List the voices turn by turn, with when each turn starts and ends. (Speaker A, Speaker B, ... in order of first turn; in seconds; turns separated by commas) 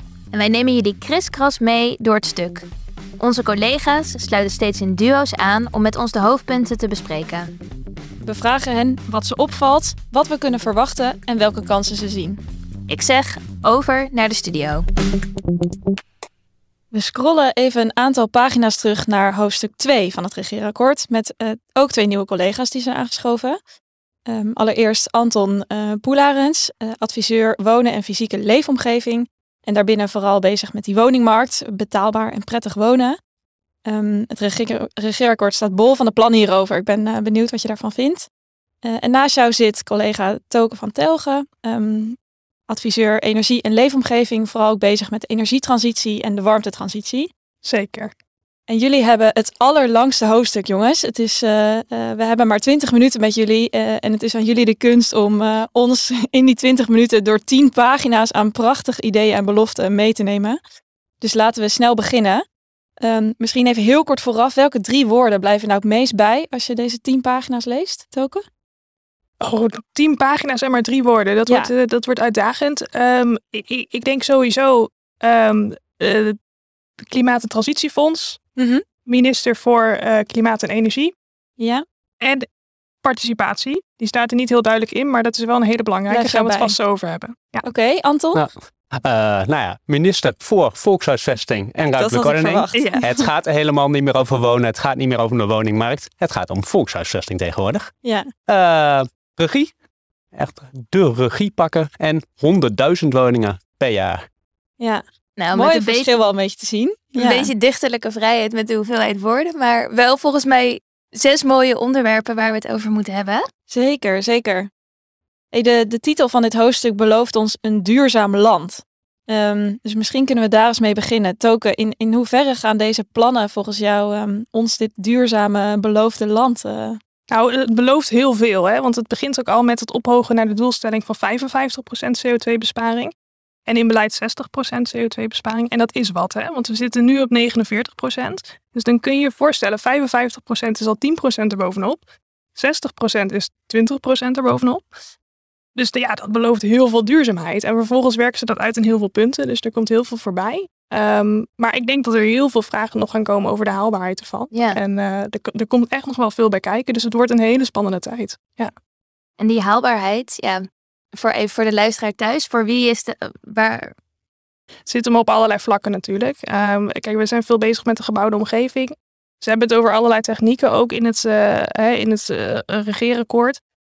Speaker A: 0.3-2.7, Speaker A: 3.2-7.5, Speaker B: 8.2-12.4, Speaker A: 12.9-14.8, Speaker B: 16.9-23.6, Speaker B: 24.3-33.2, Speaker B: 33.9-38.3, Speaker B: 38.8-42.2, Speaker B: 42.7-47.3, Speaker C: 47.6-48.1, Speaker B: 48.7-60.6, Speaker B: 61.2-62.4, Speaker B: 63.0-68.4, Speaker C: 69.4-76.3, Speaker B: 71.5-71.7, Speaker C: 77.0-78.4, Speaker B: 78.6-78.8, Speaker C: 79.0-81.1, Speaker B: 81.6-81.8, Speaker C: 82.2-82.5, Speaker C: 83.0-87.6, Speaker B: 86.1-86.8, Speaker B: 87.6-88.4, Speaker D: 88.3-97.9, Speaker B: 92.0-93.2, Speaker C: 92.7-93.0, Speaker D: 98.5-99.7, Speaker D: 100.3-104.2, Speaker B: 104.8-107.5, Speaker A: 105.4-106.1, Speaker A: 107.2-113.4, Speaker B: 113.7-114.7, Speaker B: 115.5-127.0, Speaker C: 127.3-133.1, Speaker C: 133.7-142.0, Speaker C: 142.5-144.8, Speaker C: 145.8-158.7, Speaker A: 154.5-154.8, Speaker A: 159.4-160.6, Speaker A: 161.1-163.9, Speaker C: 164.9-173.6